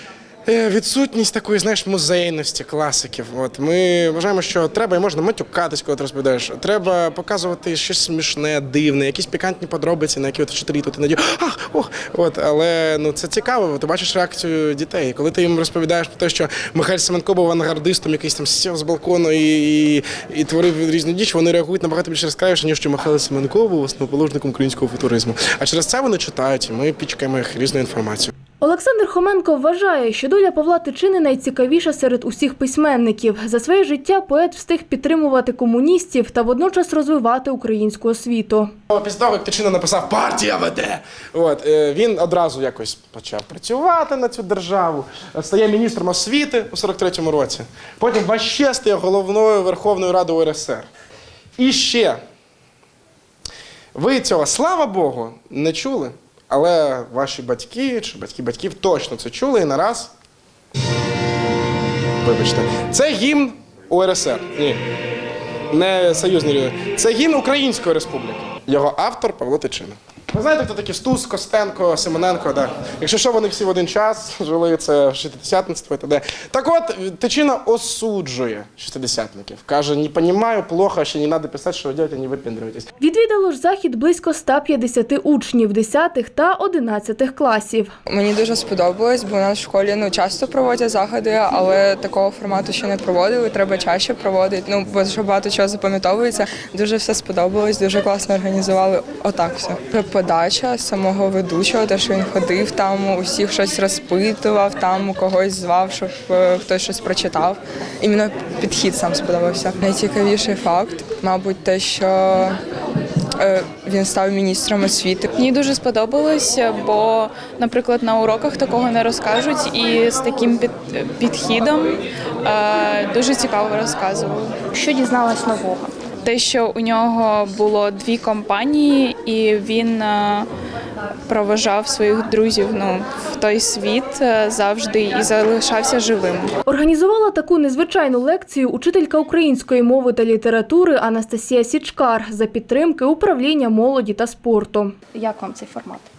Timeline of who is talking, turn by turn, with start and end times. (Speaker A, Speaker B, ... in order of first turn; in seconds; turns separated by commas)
Speaker A: 0.5-28.3, Speaker B: 28.6-38.7, Speaker A: 38.9-50.9, Speaker A: 51.6-52.2, Speaker A: 53.9-60.1, Speaker A: 62.2-64.8, Speaker A: 65.7-82.9, Speaker B: 83.0-87.9, Speaker C: 88.1-112.6, Speaker C: 113.4-115.3, Speaker D: 115.4-124.5, Speaker E: 124.7-126.0, Speaker D: 126.2-130.5, Speaker D: 131.3-136.6, Speaker B: 136.7-144.9, Speaker E: 145.1-146.1